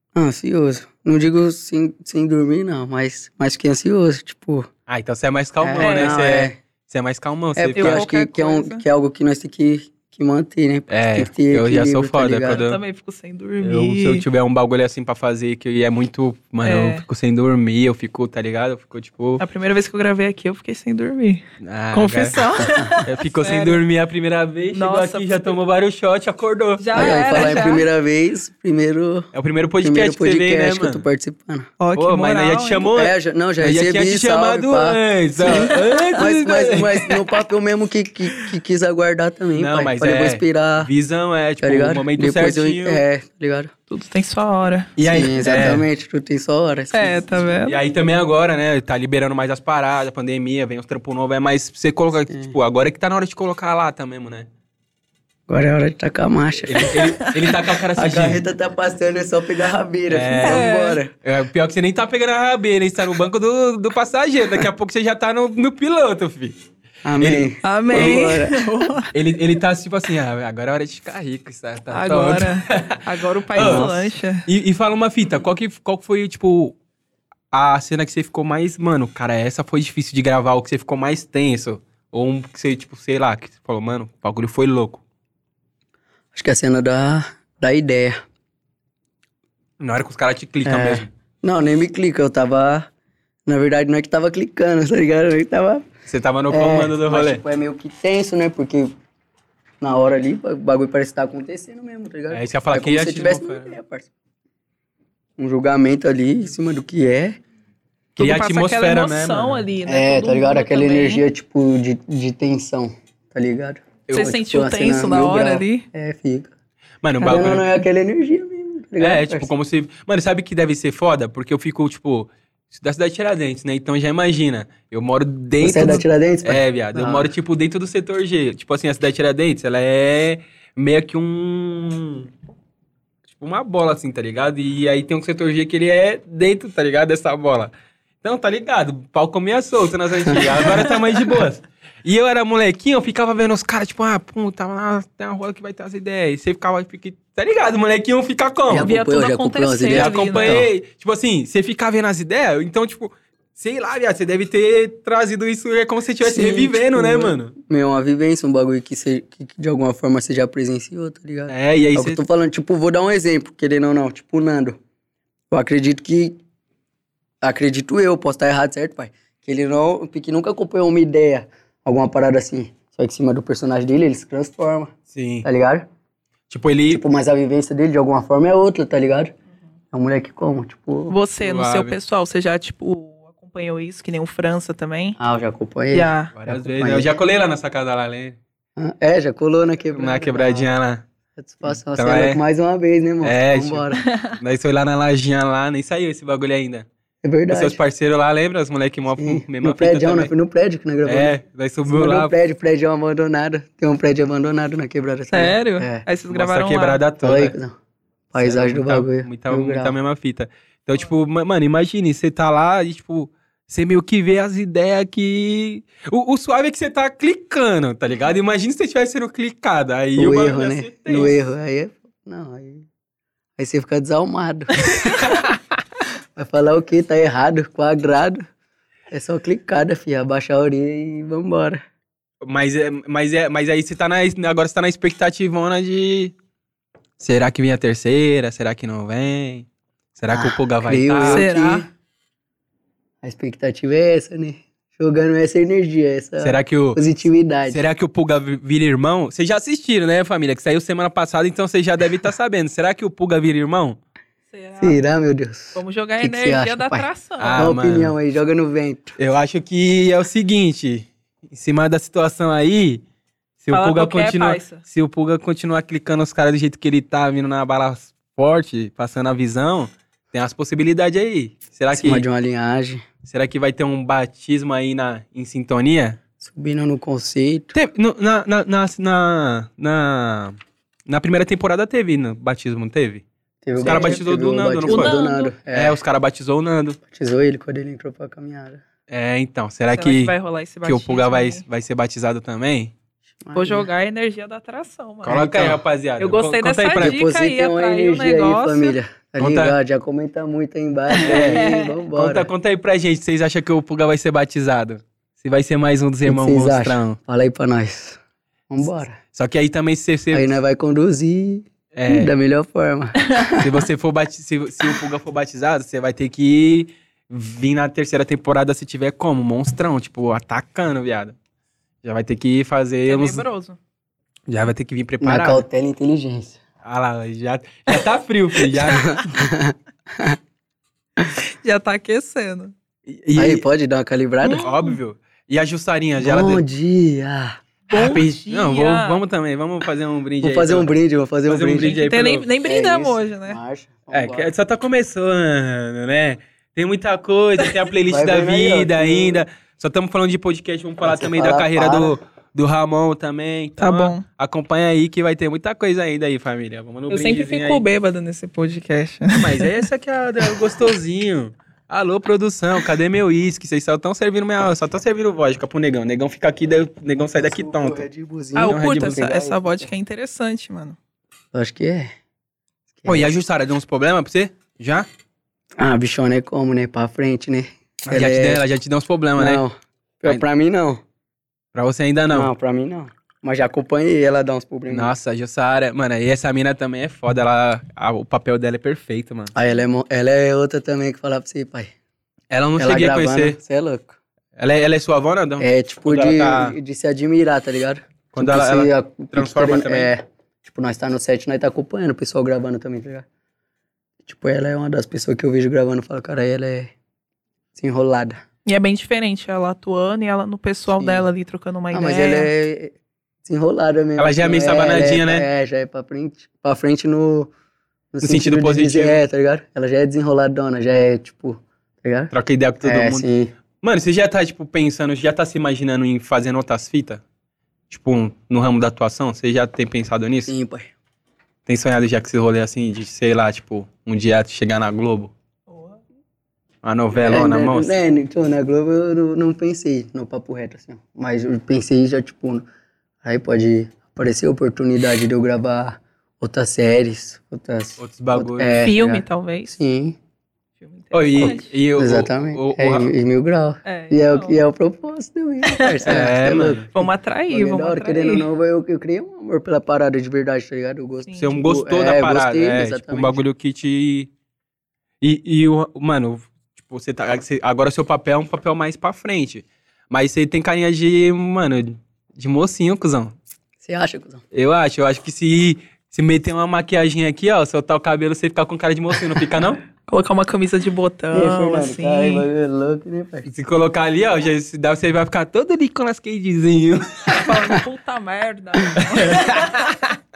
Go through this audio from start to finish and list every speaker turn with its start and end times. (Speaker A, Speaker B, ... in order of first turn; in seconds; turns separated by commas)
Speaker A: 0.1-4.7, Speaker B: 4.9-8.0, Speaker A: 5.6-6.6, Speaker C: 5.8-6.2, Speaker A: 7.5-12.6, Speaker C: 7.8-8.8, Speaker B: 10.9-12.8, Speaker C: 12.5-14.2, Speaker B: 13.6-19.4, Speaker C: 16.6-17.0, Speaker C: 19.4-23.8, Speaker B: 21.6-22.4, Speaker A: 22.6-23.0, Speaker B: 23.0-27.7, Speaker C: 24.7-25.5, Speaker C: 26.8-27.9, Speaker A: 26.9-29.3, Speaker B: 29.3-31.0, Speaker A: 29.8-31.7, Speaker C: 31.8-32.9, Speaker B: 31.9-37.2, Speaker A: 32.9-40.9, Speaker C: 35.4-36.2, Speaker B: 39.5-43.0, Speaker A: 41.6-43.7, Speaker C: 43.9-44.9, Speaker B: 45.0-45.8, Speaker A: 45.0-47.2, Speaker C: 46.9-47.8, Speaker B: 47.6-54.5, Speaker A: 55.5-57.3, Speaker B: 56.7-58.4, Speaker A: 57.9-61.1, Speaker B: 60.1-60.7, Speaker C: 60.4-61.0, Speaker B: 61.2-66.6, Speaker A: 67.0-68.6, Speaker B: 67.2-68.3, Speaker C: 67.6-69.1, Speaker B: 69.1-73.0, Speaker C: 71.9-74.5, Speaker B: 73.5-73.9, Speaker A: 73.6-74.0, Speaker B: 74.5-76.8, Speaker B: 77.5-85.0, Speaker A: 86.3-88.2, Speaker B: 89.8-91.1, Speaker A: 90.6-92.9, Speaker A: 93.5-95.9, Speaker B: 96.1-97.4, Speaker A: 96.5-98.9, Speaker A: 99.8-104.1, Speaker B: 102.3-103.8, Speaker A: 105.4-107.4, Speaker C: 108.2-111.2, Speaker B: 108.2-109.6, Speaker A: 109.8-116.5, Speaker C: 114.1-115.8, Speaker B: 117.0-117.7, Speaker A: 117.2-119.5, Speaker B: 119.0-132.3, Speaker A: 125.6-127.3, Speaker B: 133.3-148.9, Speaker A: 148.7-150.7, Speaker C: 148.7-150.6, Speaker B: 149.9-157.5, Speaker A: 156.2-164.8, Speaker B: 161.5-162.2, Speaker A: 165.5-166.4, Speaker A: 167.4-174.9, Speaker B: 175.1-175.4, Speaker A: 175.4-175.8, Speaker B: 176.5-177.0, Speaker A: 176.9-179.3, Speaker A: 179.9-181.1, Speaker C: 181.1-185.2, Speaker B: 181.4-181.9, Speaker A: 185.2-187.1, Speaker C: 185.9-186.3, Speaker B: 186.3-188.4, Speaker A: 188.8-190.7, Speaker B: 189.9-191.0, Speaker A: 191.4-194.0, Speaker B: 191.6-192.4, Speaker B: 193.2-196.9, Speaker C: 194.0-194.4, Speaker A: 197.2-197.8, Speaker B: 197.5-200.3, Speaker A: 199.1-206.0, Speaker B: 201.0-202.3, Speaker C: 205.3-207.0, Speaker B: 206.3-207.5, Speaker A: 207.2-207.7, Speaker A: 208.3-209.9, Speaker B: 208.4-221.4, Speaker A: 220.2-222.8, Speaker A: 223.6-225.5, Speaker A: 226.3-228.4, Speaker A: 229.1-231.8, Speaker B: 232.4-236.3, Speaker B: 237.2-241.4, Speaker A: 240.3-241.9, Speaker C: 241.2-241.8, Speaker A: 243.2-247.8, Speaker B: 246.4-247.0, Speaker B: 247.7-254.0, Speaker C: 254.5-255.0, Speaker A: 254.8-259.1, Speaker C: 255.7-257.7, Speaker B: 257.4-258.1, Speaker B: 259.2-263.0, Speaker B: 263.6-272.2, Speaker C: 263.7-264.8, Speaker A: 271.9-273.0, Speaker B: 273.2-276.2, Speaker A: 276.4-277.7, Speaker B: 277.7-283.2, Speaker A: 283.6-286.0, Speaker B: 283.8-285.2, Speaker C: 283.8-284.2, Speaker C: 284.9-285.5, Speaker B: 285.7-287.0, Speaker A: 287.1-288.8, Speaker B: 289.1-292.9, Speaker C: 289.9-291.6, Speaker A: 293.4-293.9, Speaker C: 293.5-298.9, Speaker B: 295.2-297.2, Speaker A: 297.0-302.5, Speaker B: 299.4-299.8, Speaker C: 301.1-302.0, Speaker B: 301.2-307.2, Speaker A: 306.2-309.2, Speaker B: 309.3-310.5, Speaker A: 310.3-313.6, Speaker B: 311.9-312.3, Speaker B: 313.5-321.4, Speaker B: 322.0-323.4, Speaker C: 323.1-323.8, Speaker B: 324.5-325.6, Speaker A: 325.2-326.6, Speaker B: 326.8-329.2, Speaker A: 328.8-330.4, Speaker C: 331.5-332.7, Speaker B: 333.1-333.6, Speaker A: 333.4-334.6, Speaker C: 334.4-335.0, Speaker B: 334.4-336.6, Speaker A: 336.2-337.6, Speaker C: 337.9-339.2, Speaker B: 337.9-340.9, Speaker A: 340.4-344.5, Speaker B: 341.5-342.5, Speaker C: 341.8-343.6, Speaker B: 344.1-357.8, Speaker A: 348.1-349.4, Speaker A: 351.0-352.2, Speaker C: 353.8-354.2, Speaker C: 357.1-359.8, Speaker B: 359.3-368.1, Speaker C: 360.5-360.7, Speaker A: 367.4-369.9, Speaker C: 368.6-370.9, Speaker B: 368.6-369.2, Speaker A: 371.5-372.1, Speaker A: 373.0-373.3, Speaker B: 373.1-375.1, Speaker A: 375.8-378.6, Speaker B: 378.1-379.6, Speaker A: 379.4-381.0, Speaker B: 381.7-382.5, Speaker A: 382.3-385.1, Speaker B: 384.9-389.5, Speaker A: 389.5-391.9, Speaker B: 392.5-393.6, Speaker A: 392.8-394.1, Speaker B: 394.6-396.8, Speaker A: 395.6-403.2, Speaker B: 398.3-400.1, Speaker A: 404.2-406.9, Speaker A: 407.8-408.4, Speaker C: 408.6-412.5, Speaker A: 411.0-411.3, Speaker A: 411.9-417.5, Speaker B: 414.2-415.4, Speaker A: 418.1-423.5, Speaker B: 418.2-419.2, Speaker B: 422.3-423.3, Speaker B: 423.8-427.2, Speaker B: 427.9-430.5, Speaker A: 430.5-430.9, Speaker B: 431.6-435.3, Speaker C: 435.7-436.0, Speaker B: 436.8-437.9, Speaker A: 437.2-442.6, Speaker A: 443.2-450.2, Speaker B: 448.0-448.9, Speaker C: 448.8-449.7, Speaker C: 450.8-451.7, Speaker B: 451.1-453.1, Speaker A: 451.4-463.4, Speaker C: 453.8-454.6, Speaker C: 455.6-456.2, Speaker B: 456.1-456.9, Speaker C: 456.9-458.5, Speaker C: 461.3-461.6, Speaker B: 461.4-464.3, Speaker B: 465.2-473.4, Speaker A: 473.8-474.4, Speaker B: 474.5-479.8, Speaker C: 480.1-482.4, Speaker A: 481.3-483.5, Speaker B: 483.4-487.6, Speaker C: 487.3-489.9, Speaker B: 488.9-490.1